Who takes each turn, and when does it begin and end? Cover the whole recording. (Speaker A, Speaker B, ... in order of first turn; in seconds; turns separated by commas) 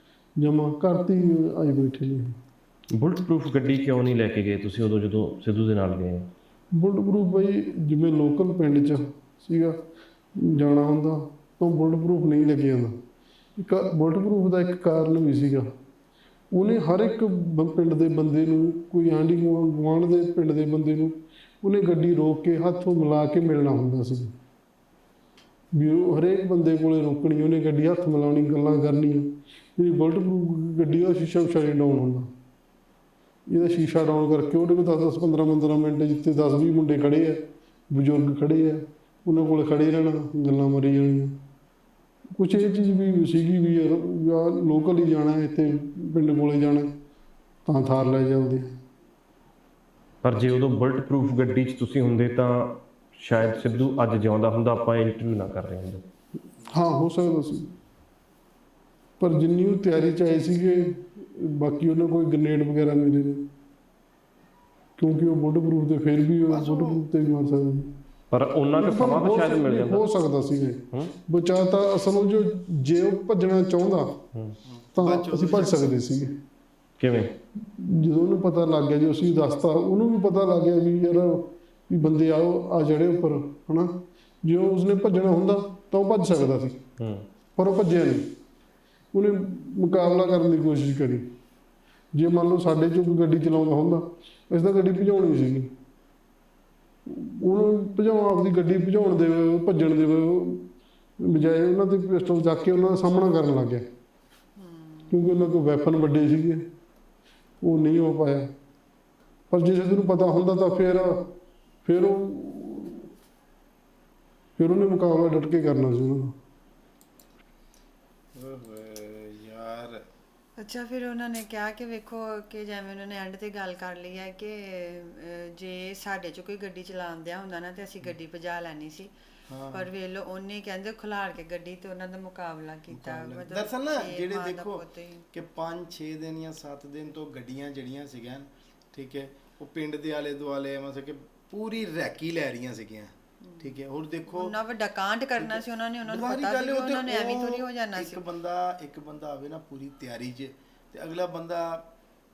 Speaker A: 0.4-2.4, Speaker B: 2.9-6.3, Speaker A: 6.7-9.8, Speaker A: 10.3-13.0, Speaker A: 13.6-15.7, Speaker A: 16.5-24.3, Speaker A: 25.7-32.3, Speaker A: 33.5-41.4, Speaker A: 42.3-46.9, Speaker A: 47.6-48.8, Speaker B: 50.2-56.0, Speaker A: 56.7-57.7, Speaker A: 59.2-63.5, Speaker A: 65.0-67.9, Speaker C: 66.5-67.0, Speaker B: 68.3-70.0, Speaker A: 68.8-74.2, Speaker C: 74.6-75.8, Speaker A: 75.0-76.3, Speaker B: 77.0-77.3, Speaker A: 77.6-86.8, Speaker B: 87.0-87.2, Speaker A: 87.5-88.3, Speaker A: 89.1-91.3, Speaker A: 92.1-95.7, Speaker A: 97.0-100.7, Speaker A: 101.2-103.8, Speaker D: 104.5-105.2, Speaker A: 105.1-106.6, Speaker A: 107.6-108.5, Speaker A: 109.5-111.2, Speaker A: 111.8-113.1, Speaker A: 114.6-116.3, Speaker C: 118.3-120.0, Speaker D: 120.6-129.1, Speaker C: 129.5-129.9, Speaker D: 129.7-135.2, Speaker C: 132.9-134.8, Speaker C: 135.3-144.5, Speaker D: 143.4-143.7, Speaker D: 144.3-148.2, Speaker C: 145.4-151.9